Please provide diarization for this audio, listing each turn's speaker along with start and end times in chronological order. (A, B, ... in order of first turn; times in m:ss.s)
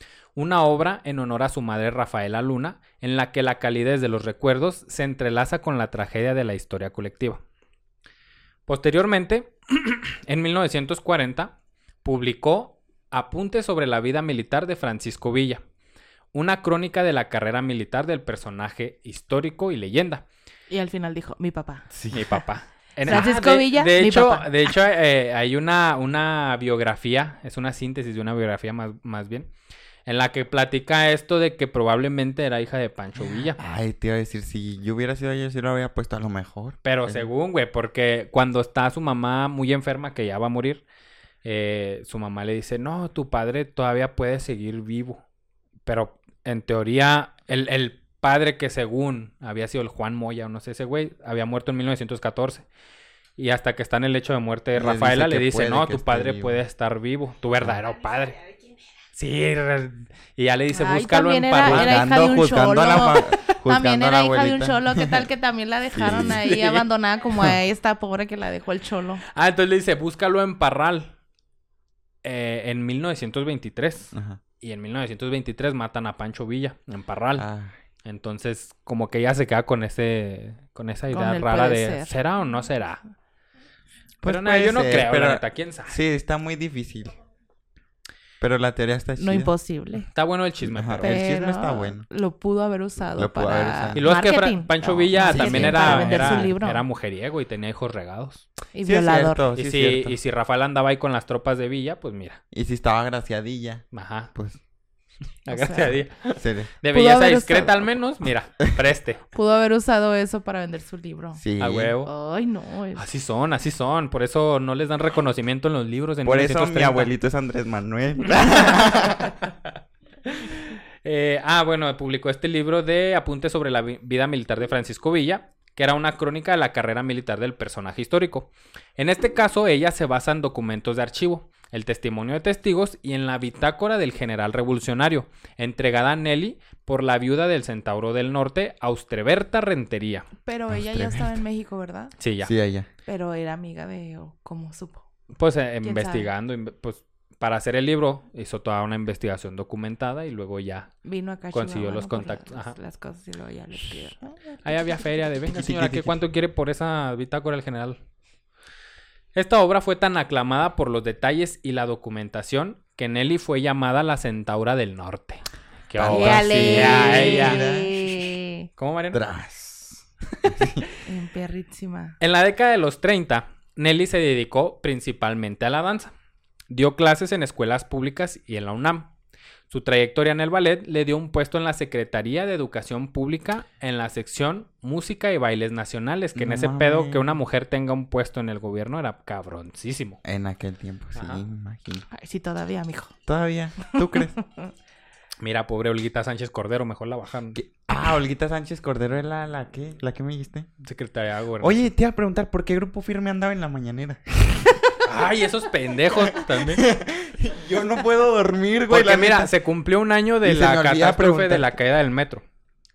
0:00.4-0:07.4 A
0:08.7-0:15.6 A
0:16.3-0:20.3 A
0:20.7-0:21.9 B
0:21.9-0:22.4 C
0:22.1-0:29.5 A
0:23.0-0:24.7 B
0:30.0-0:33.6 A
0:33.2-0:37.3 C
0:36.8-0:40.8 A
0:41.4-0:45.2 A
0:45.8-0:52.7 A
0:53.4-0:58.4 A
0:54.7-0:56.6 C
0:59.1-1:02.0 A
1:00.7-1:09.2 B
1:01.6-1:05.2 C
1:05.9-1:06.5 C
1:06.1-1:06.8 A
1:09.3-1:11.1 A
1:12.2-1:17.4 A
1:14.1-1:14.4 C
1:17.4-1:17.8 C
1:18.0-1:23.0 A
1:21.1-1:22.2 B
1:24.2-1:27.2 C
1:24.2-1:26.0 A
1:28.4-1:29.5 C
1:29.2-1:30.1 B
1:30.1-1:31.2 A
1:30.6-1:32.0 C
1:31.0-1:36.8 B
1:33.1-1:34.1 C
1:33.9-1:38.5 A
1:34.8-1:36.5 C
1:38.7-1:39.4 B
1:38.8-1:40.2 C
1:39.6-1:42.4 A
1:42.5-1:44.6 C
1:43.9-1:44.3 A
1:45.5-1:49.2 A
1:45.5-1:46.0 B
1:46.4-1:46.7 C
1:46.9-1:47.9 B
1:49.3-1:51.4 B
1:51.4-1:51.9 C
1:51.6-1:52.1 A
1:52.0-1:53.0 B
1:53.0-1:57.1 A
1:56.2-1:59.3 C
2:00.2-2:20.3 A
2:20.4-2:22.2 B
2:20.7-2:21.4 C
2:22.2-2:22.5 A
2:22.4-2:22.9 C
2:23.0-2:25.1 B
2:25.4-2:30.9 A
2:25.8-2:26.3 B
2:31.0-2:35.3 B
2:31.5-2:32.8 A
2:34.6-2:38.0 A
2:35.5-2:36.2 C
2:39.3-2:47.6 A
2:46.0-2:48.3 C
2:46.0-2:48.7 B
2:48.8-2:49.2 A
2:49.1-2:50.8 C
2:51.0-2:52.2 B
2:52.2-2:56.1 A
2:56.7-2:59.1 A
2:59.7-3:10.2 A
3:06.3-3:07.4 C
3:10.2-3:12.0 C
3:11.1-3:11.4 A
3:12.1-3:13.1 B
3:13.2-3:14.3 C
3:13.8-3:14.4 B
3:15.4-3:17.6 A
3:17.5-3:20.7 C
3:20.8-3:21.8 A
3:21.6-3:24.8 C
3:25.0-3:26.8 A
3:26.5-3:29.5 C
3:28.9-3:32.4 A
3:30.4-3:31.7 C